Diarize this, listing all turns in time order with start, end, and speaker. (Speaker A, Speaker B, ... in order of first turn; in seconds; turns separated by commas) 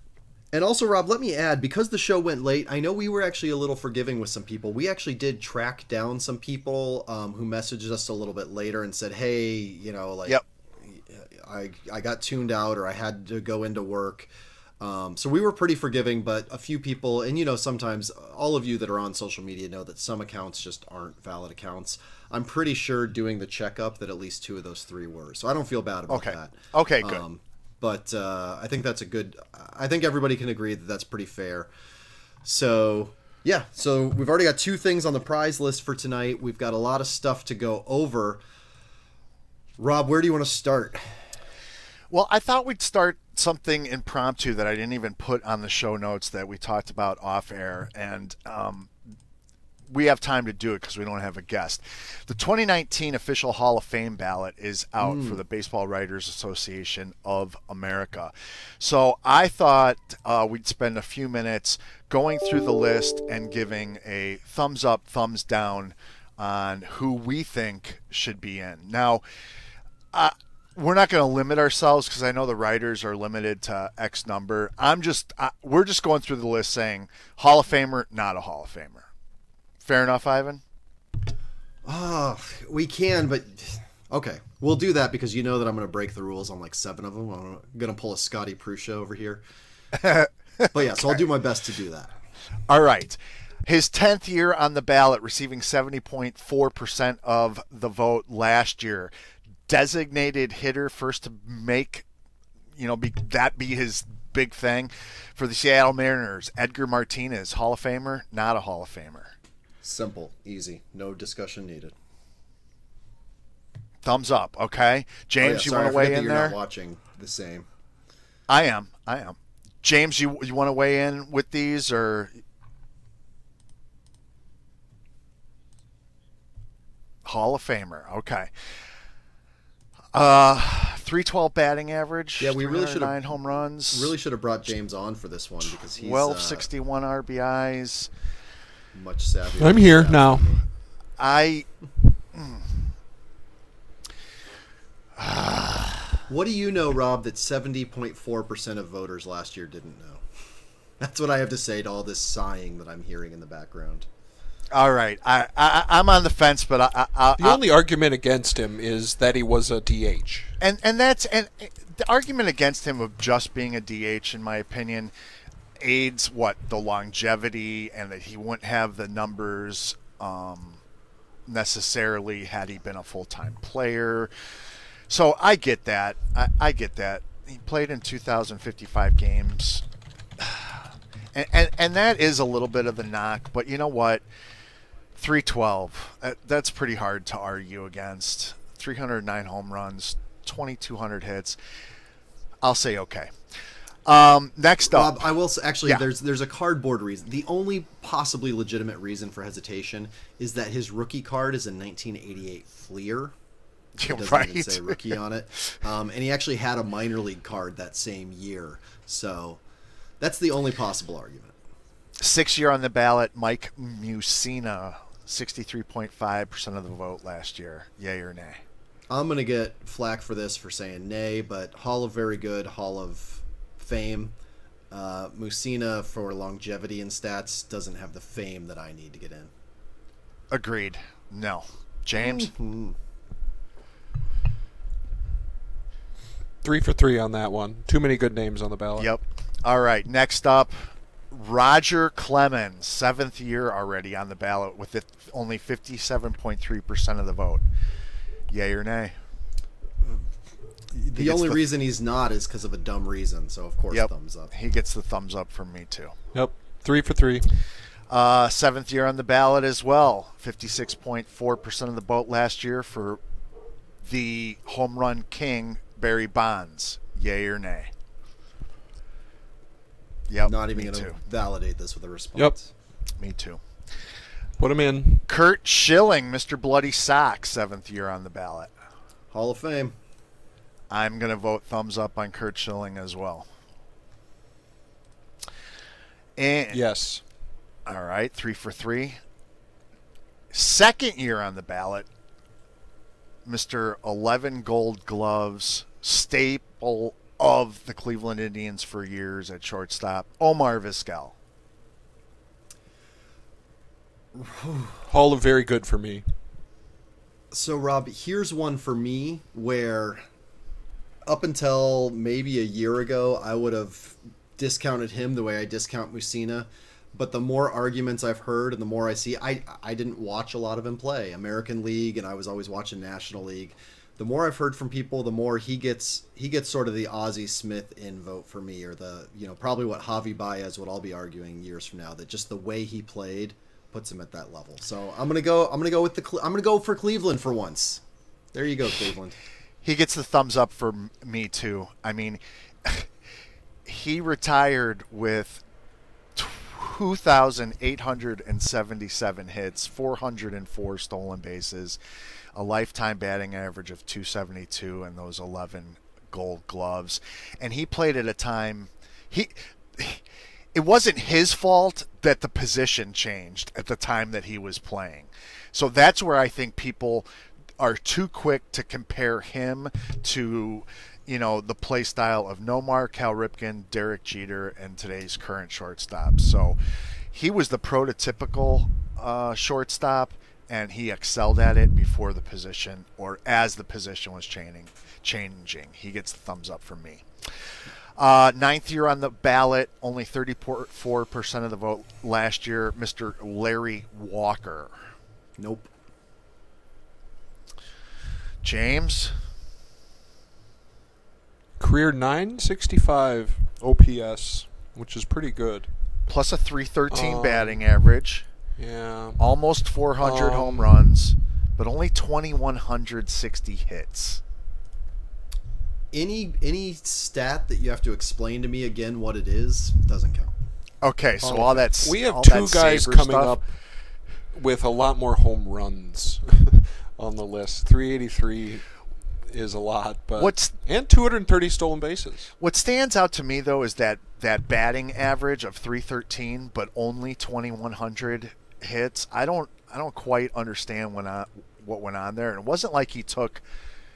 Speaker A: 0.5-31.7, Speaker B: 26.1-27.2, Speaker A: 32.5-38.4, Speaker A: 39.8-41.0, Speaker B: 42.1-48.9, Speaker B: 49.9-69.2, Speaker A: 55.0-55.4, Speaker B: 70.1-79.1, Speaker B: 79.8-80.6, Speaker A: 81.8-89.4, Speaker B: 89.9-91.2, Speaker A: 90.7-92.1, Speaker B: 92.7-99.1, Speaker B: 99.7-102.0, Speaker B: 102.8-109.3, Speaker A: 109.8-111.9, Speaker B: 114.0-116.6, Speaker A: 115.4-117.7, Speaker B: 118.5-122.4, Speaker B: 127.2-128.5, Speaker B: 130.1-134.1, Speaker A: 132.4-133.3, Speaker A: 133.9-136.7, Speaker B: 135.6-138.1, Speaker A: 138.9-140.6, Speaker C: 139.6-140.5, Speaker B: 141.2-141.7, Speaker B: 142.3-142.8, Speaker B: 145.2-146.2, Speaker A: 146.3-150.2, Speaker A: 151.0-154.1, Speaker B: 154.7-157.6, Speaker C: 157.4-160.5, Speaker B: 160.6-165.1, Speaker B: 165.8-170.8, Speaker B: 171.5-174.3, Speaker B: 175.1-179.8, Speaker B: 180.4-184.2, Speaker B: 185.2-191.6, Speaker B: 192.6-193.3, Speaker B: 194.1-195.3, Speaker A: 194.9-203.3, Speaker B: 204.0-205.2, Speaker A: 204.0-209.6, Speaker A: 210.2-211.6, Speaker B: 212.2-218.6, Speaker A: 219.1-224.3, Speaker A: 224.9-229.5, Speaker B: 230.5-232.5, Speaker A: 232.2-232.9, Speaker C: 236.6-239.1, Speaker B: 239.0-247.7, Speaker B: 248.5-249.2, Speaker A: 250.9-254.5, Speaker B: 251.1-251.6, Speaker B: 253.9-256.1, Speaker C: 256.3-257.5, Speaker B: 258.1-263.2, Speaker B: 264.0-267.9, Speaker B: 270.3-271.2, Speaker A: 270.4-272.7, Speaker B: 273.2-273.6, Speaker C: 274.6-275.3, Speaker B: 275.3-278.7, Speaker A: 279.3-280.0, Speaker B: 280.9-283.5, Speaker B: 286.4-286.8, Speaker C: 286.7-287.2, Speaker B: 287.9-289.2, Speaker B: 290.5-292.1, Speaker B: 293.4-301.4, Speaker A: 304.4-305.0, Speaker C: 305.1-306.3, Speaker A: 307.5-310.2, Speaker A: 311.2-338.0, Speaker A: 338.5-339.4, Speaker B: 339.8-343.1, Speaker B: 343.9-345.6, Speaker B: 346.4-352.0, Speaker B: 352.6-367.3, Speaker B: 367.8-376.8, Speaker B: 377.3-387.2, Speaker B: 388.2-395.0, Speaker A: 395.6-395.9, Speaker B: 398.6-399.4, Speaker C: 401.8-405.9, Speaker B: 406.3-408.5, Speaker C: 407.1-407.8, Speaker C: 408.8-409.4, Speaker B: 409.4-414.4, Speaker C: 410.2-411.0, Speaker A: 416.1-420.5, Speaker B: 421.0-423.6, Speaker C: 421.4-423.6, Speaker C: 424.5-428.9, Speaker C: 429.5-432.5, Speaker B: 430.4-430.8, Speaker B: 432.6-443.6